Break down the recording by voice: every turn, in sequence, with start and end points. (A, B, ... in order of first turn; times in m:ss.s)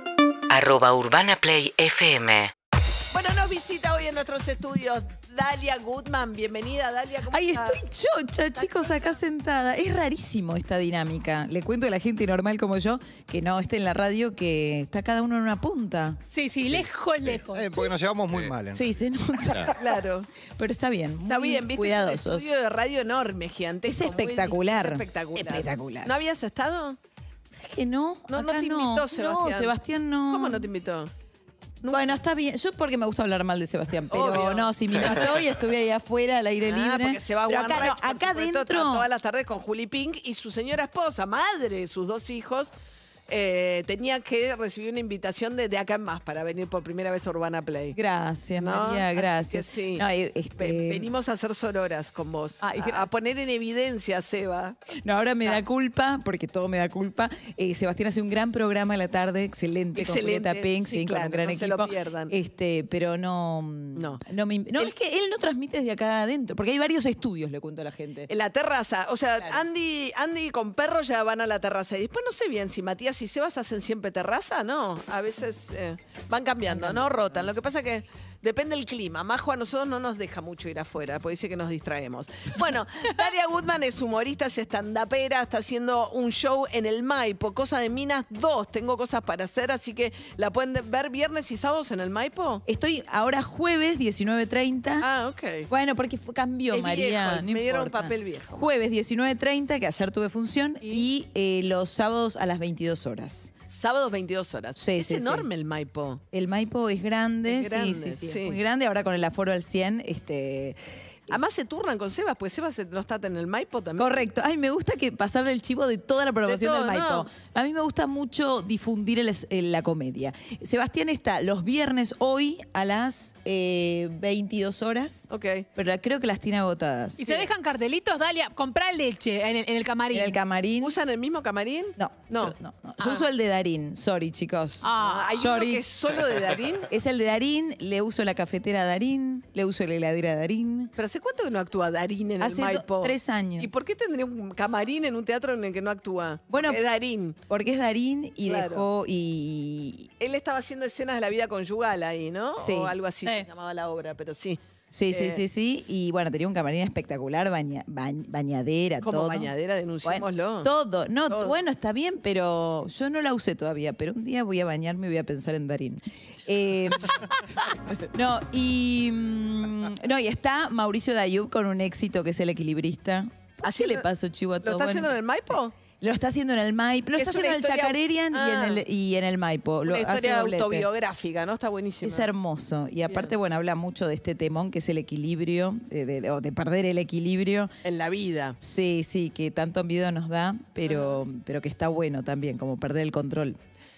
0:00.5-0:02.5 A
0:03.1-0:07.8 B
0:07.3-0:16.2 C
0:08.6-0:09.2 B
0:16.3-0:17.9 D
0:16.7-0:19.0 E
0:18.7-0:19.8 C
0:19.8-0:20.3 B
0:20.6-0:22.5 C
0:21.2-0:27.0 B
0:23.8-0:26.1 C
0:27.6-0:30.7 C
0:28.3-0:29.8 B
0:30.3-0:31.1 B
0:31.9-0:39.1 C
0:34.1-0:35.1 B
0:36.6-0:42.7 B
0:43.3-0:48.0 B
0:47.9-0:51.1 C
0:48.6-0:50.0 B
0:50.6-0:54.8 B
0:52.6-0:53.2 C
0:55.0-1:08.3 C
0:59.9-1:02.3 B
1:04.0-1:04.2 B
1:08.3-1:32.6 B
1:09.4-1:09.7 C
1:16.7-1:17.5 C
1:32.7-1:35.1 C
1:35.0-1:35.7 B
1:35.7-1:43.5 C
1:36.7-1:38.6 B
1:40.8-1:41.1 B
1:43.7-1:46.2 B
1:44.8-1:45.5 C
1:46.3-1:51.4 C
1:47.4-1:48.6 B
1:51.3-1:54.2 B
1:54.0-2:07.2 C
1:56.4-1:57.3 B
2:05.3-2:05.7 B
2:07.2-2:10.4 D
2:07.2-2:07.5 B
2:10.1-2:11.0 C
2:10.8-2:13.3 B
2:12.0-2:15.8 C
2:14.8-2:15.3 D
2:15.0-2:16.9 B
2:16.9-2:20.9 C
2:21.0-2:27.4 B
2:22.4-2:23.8 C
2:26.5-2:26.8 C
2:27.5-2:30.1 C
2:28.4-2:28.9 B
2:30.2-2:35.4 B
2:32.6-2:33.0 C
2:34.9-2:39.5 C
2:39.0-2:40.7 B
2:40.0-2:47.3 C
2:41.3-2:41.6 B
2:48.1-2:55.2 C
2:53.6-2:54.1 B
2:54.6-2:55.8 B
2:56.0-3:00.9 C
2:57.2-2:58.8 B
2:59.9-3:02.3 B
3:02.0-3:07.7 C
3:03.1-3:03.3 B
3:07.8-3:08.6 B
3:08.6-3:13.6 C
3:10.8-3:11.2 B